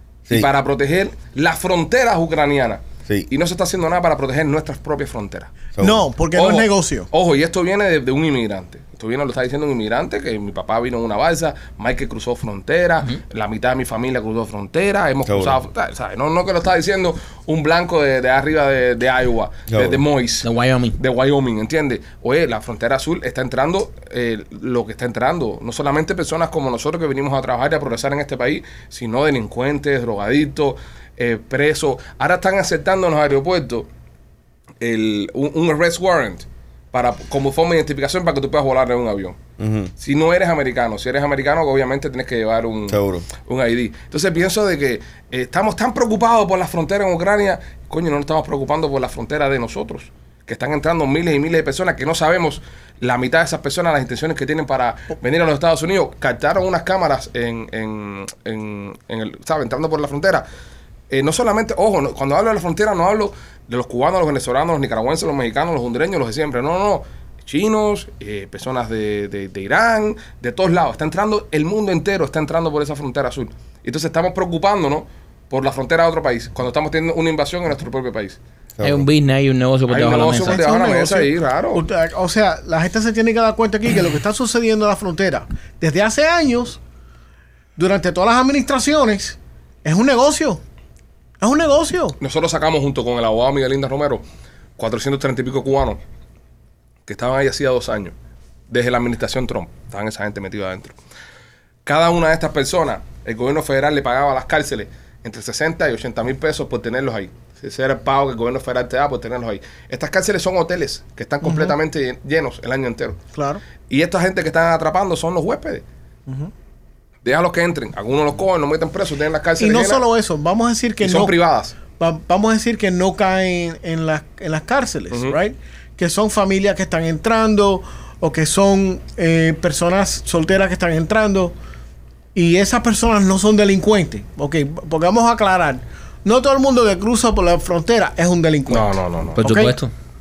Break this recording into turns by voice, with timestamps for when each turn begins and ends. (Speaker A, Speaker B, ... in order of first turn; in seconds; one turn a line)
Speaker A: 0.3-5.5
Speaker B: 5.8-6.1
Speaker C: 5.8-7.1
Speaker A: 6.3-33.9
Speaker B: 15.3-15.6
Speaker B: 19.7-20.0
Speaker D: 20.4-21.0
Speaker A: 34.8-39.4
Speaker B: 39.6-39.9
Speaker A: 40.0-60.5
Speaker B: 42.9-43.3
Speaker A: 61.1-78.4
Speaker B: 78.8-79.1
Speaker D: 78.8-80.6
Speaker A: 79.9-81.8
Speaker C: 80.5-86.8
Speaker C: 87.8-90.6
Speaker C: 91.4-92.2
Speaker A: 92.2-94.2
Speaker A: 94.8-96.0
Speaker A: 97.1-98.1
Speaker A: 98.7-101.0
Speaker A: 101.9-113.2
Speaker C: 111.4-111.8
Speaker C: 113.3-113.6
Speaker A: 113.9-115.8
Speaker A: 117.2-120.0
Speaker C: 119.6-131.6
Speaker A: 121.0-121.8
Speaker C: 132.3-139.8
Speaker A: 138.7-139.4
Speaker D: 139.4-139.9